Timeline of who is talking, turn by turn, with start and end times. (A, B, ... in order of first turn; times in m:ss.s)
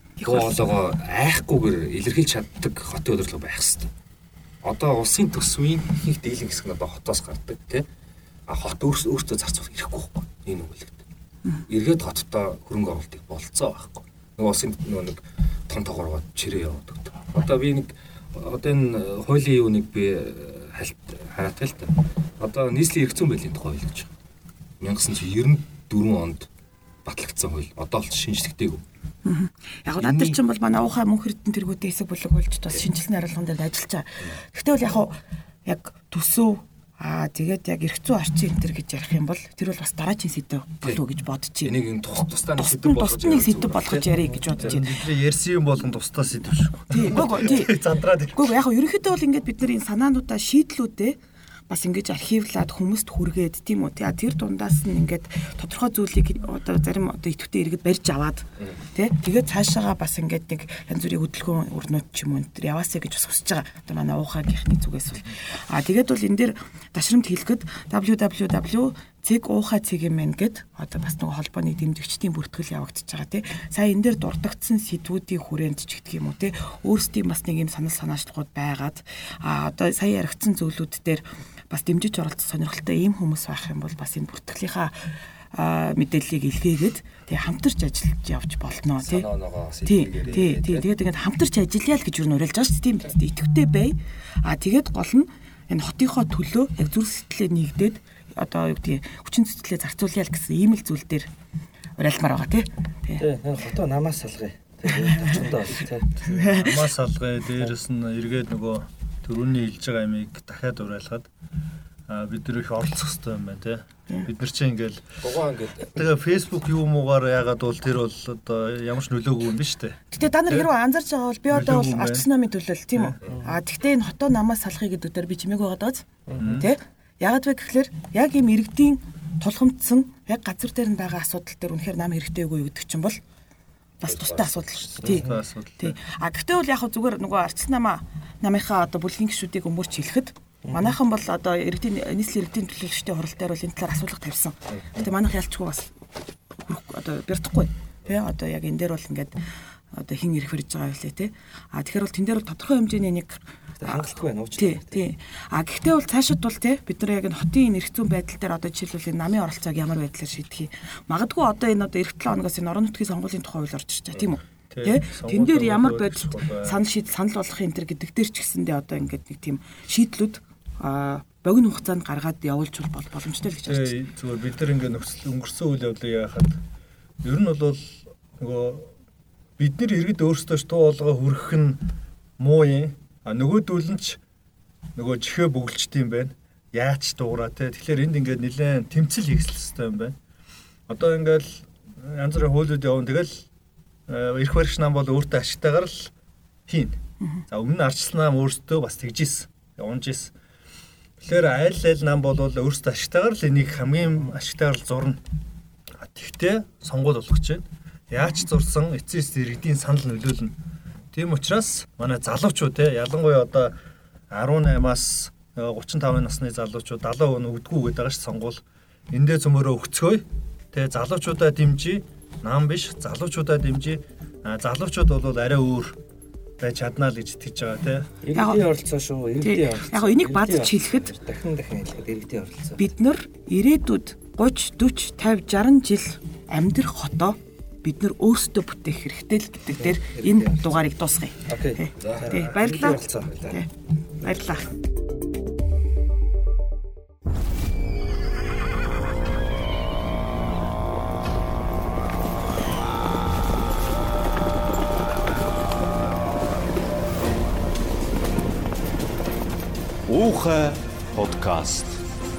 0:00.2-0:00.6 A
0:00.2-0:03.9 B
0:04.6-0:07.8 B
0:08.5-0:11.0 B
0:11.7-0:24.1 B
0:24.8-0:26.5 B
0:27.0-0:28.8 B
0:29.2-0:41.7 A
0:30.0-0:30.4 B
0:41.6-0:44.1 B
0:42.6-0:44.9 A
0:44.6-0:48.6 C
0:46.9-0:51.2 A
0:51.7-1:29.3 A
1:29.0-1:30.9 B
1:29.8-1:41.3 A
1:42.0-1:43.2 A
1:43.2-1:46.8 D
1:44.9-1:45.5 A
1:46.2-1:46.9 A
1:46.5-1:51.3 C
1:52.1-1:55.1 C
1:55.2-1:56.0 B
1:55.9-2:00.7 C
2:00.1-2:13.2 A
2:01.5-2:02.3 C
2:06.3-2:06.6 D
2:06.4-2:06.7 C
2:14.0-2:26.0 A
2:14.1-2:15.2 B
2:15.0-2:15.3 D
2:15.1-2:16.0 C
2:20.6-2:20.9 D
2:26.5-2:29.4 A
2:29.9-2:54.0 A
2:33.8-2:35.0 D
2:44.7-2:46.8 C
2:53.6-2:56.6 C
2:57.2-2:58.9 C
2:59.6-3:01.8 C
3:02.4-3:04.2 C
3:05.0-3:10.2 C
3:10.9-3:13.5 C
3:14.1-3:16.1 C
3:16.7-3:17.0 C
3:17.5-3:20.3 C
3:21.2-3:25.2 C
3:26.0-3:30.6 C
3:31.1-3:33.8 C
3:34.3-3:46.0 C
3:46.6-3:48.1 C
3:48.2-3:52.9 D
3:48.3-3:48.7 A
3:49.4-3:51.1 A
3:52.8-4:04.7 A
3:59.8-4:00.8 D
4:01.4-4:03.5 D
4:02.0-4:02.5 B
4:03.1-4:03.6 B
4:20.1-4:22.0 E